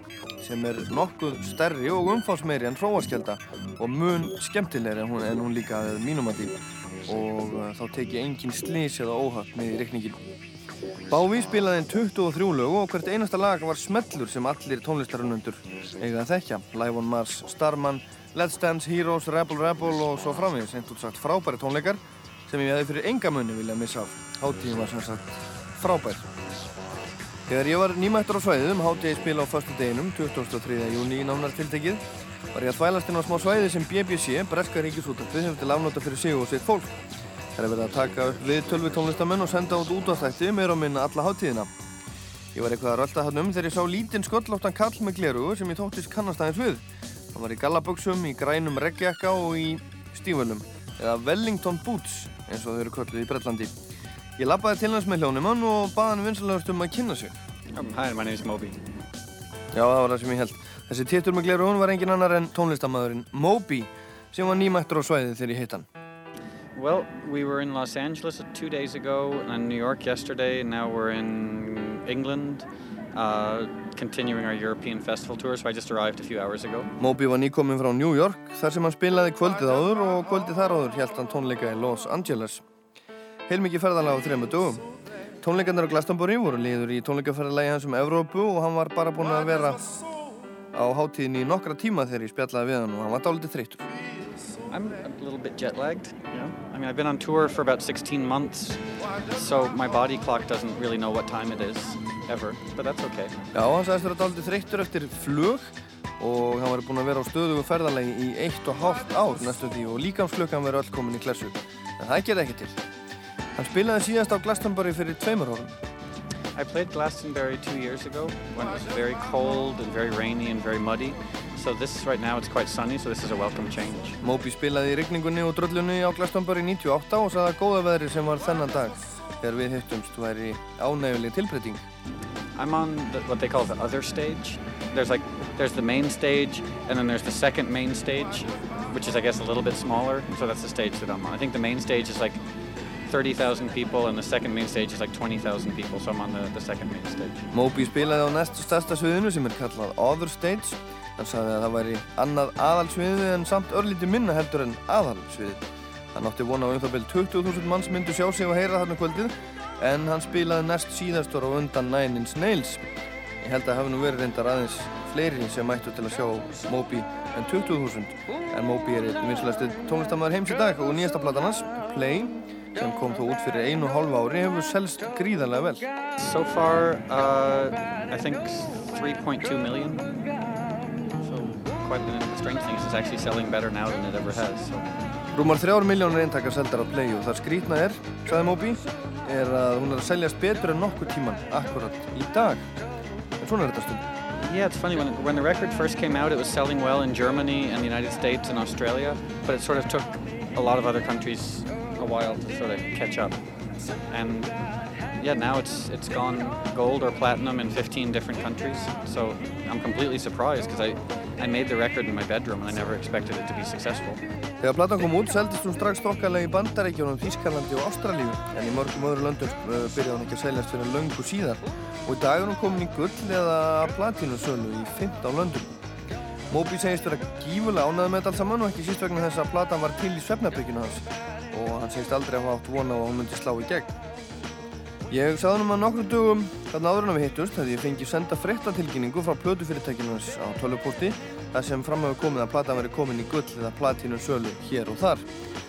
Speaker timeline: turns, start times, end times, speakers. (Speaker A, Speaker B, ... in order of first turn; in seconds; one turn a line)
Speaker A: 0.4-10.2
Speaker A: 11.1-26.2
Speaker A: 27.5-32.0
Speaker A: 32.5-37.0
Speaker A: 37.6-41.7
Speaker A: 42.5-53.7
Speaker A: 54.4-57.3
Speaker B: 57.7-58.8
Speaker A: 59.7-65.9
Speaker B: 66.8-76.9
Speaker A: 77.0-82.6
Speaker A: 83.5-84.8
Speaker A: 85.4-89.9
Speaker A: 90.7-93.8
Speaker B: 94.7-98.8
Speaker B: 99.3-103.4
Speaker A: 103.5-112.8
Speaker A: 113.6-115.7
Speaker B: 116.5-124.2
Speaker A: 124.2-131.8
Speaker B: 132.6-142.4
Speaker B: 143.1-147.5
Speaker A: 147.5-162.8
Speaker A: 163.4-175.9
Speaker B: 176.2-180.0
Speaker B: 181.2-184.9
Speaker A: 185.3-192.7
Speaker A: 193.4-194.0
Speaker B: 194.4-203.4
Speaker B: 204.1-204.6
Speaker B: 205.2-214.2
Speaker A: 214.6-225.7
Speaker A: 226.5-233.9
Speaker A: 235.1-245.3